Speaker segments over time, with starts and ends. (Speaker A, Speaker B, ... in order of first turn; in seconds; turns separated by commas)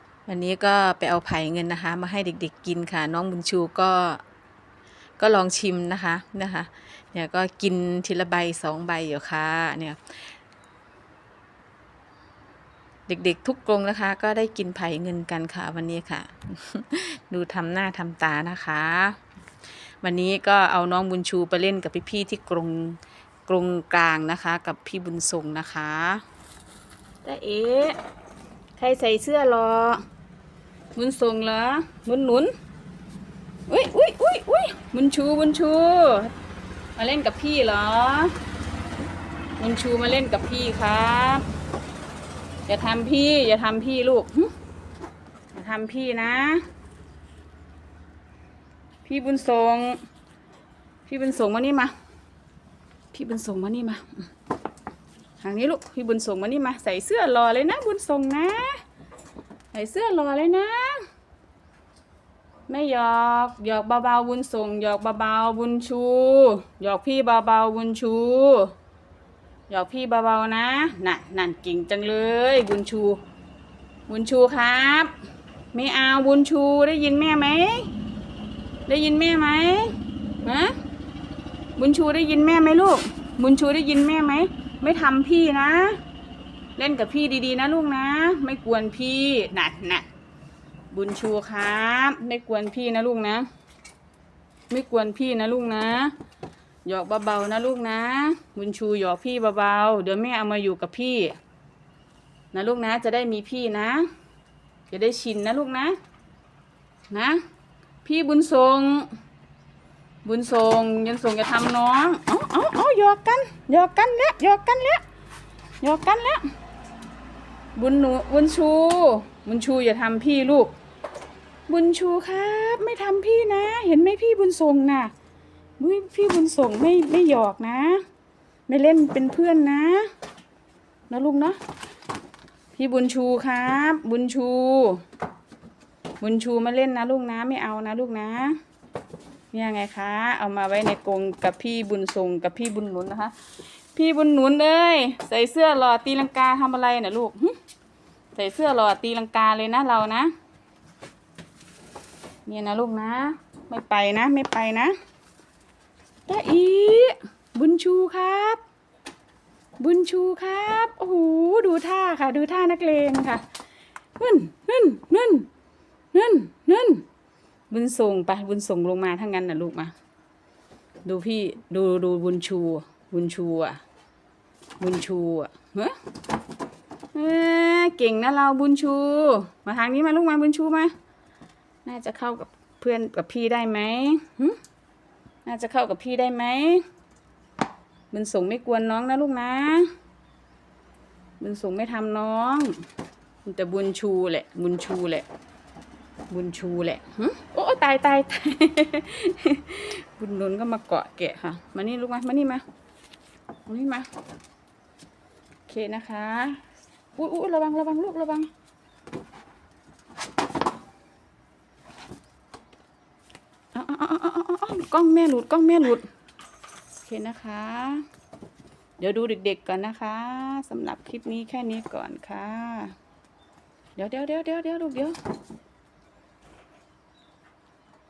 Speaker A: 0.3-4.2, Speaker A: 5.2-10.1, Speaker A: 13.1-19.2, Speaker A: 20.0-26.2, Speaker A: 27.2-28.0, Speaker A: 28.8-30.0, Speaker A: 30.9-32.5, Speaker A: 33.7-36.3, Speaker A: 37.0-38.3, Speaker A: 39.6-41.4, Speaker A: 42.7-44.5, Speaker A: 45.5-46.6, Speaker A: 49.0-50.0, Speaker A: 51.0-51.9, Speaker A: 53.1-54.2, Speaker A: 55.4-58.8, Speaker A: 59.7-61.0, Speaker A: 62.7-68.7, Speaker A: 69.7-73.2, Speaker A: 74.1-75.1, Speaker A: 75.7-77.9, Speaker A: 78.9-80.8, Speaker A: 81.8-86.0, Speaker A: 86.8-90.0, Speaker A: 90.9-93.5, Speaker A: 94.7-96.1, Speaker A: 96.8-101.4, Speaker A: 102.5-104.1, Speaker A: 104.9-106.0, Speaker A: 107.1-107.4, Speaker A: 108.0-109.1, Speaker A: 110.2-115.0, Speaker A: 115.8-116.5, Speaker A: 117.8-120.7, Speaker A: 121.7-125.1, Speaker A: 125.8-128.0, Speaker A: 128.7-130.1, Speaker A: 131.1-131.6, Speaker A: 132.7-135.0, Speaker A: 136.2-138.6, Speaker A: 139.5-143.3, Speaker A: 143.9-147.6, Speaker A: 148.3-150.3, Speaker A: 152.4-154.9, Speaker A: 156.3-158.6, Speaker A: 159.8-163.4, Speaker A: 164.2-165.5, Speaker A: 166.1-167.0, Speaker A: 167.7-169.9, Speaker A: 171.1-173.8, Speaker A: 174.8-175.9, Speaker A: 177.1-180.9, Speaker A: 181.8-184.6, Speaker A: 185.4-186.8, Speaker A: 188.1-189.9, Speaker A: 191.4-192.8, Speaker A: 193.4-195.2, Speaker A: 196.3-202.6, Speaker A: 203.7-204.1, Speaker A: 205.7-206.6, Speaker A: 207.2-208.5, Speaker A: 213.7-216.0, Speaker A: 217.0-218.0, Speaker A: 219.0-222.9, Speaker A: 223.9-225.2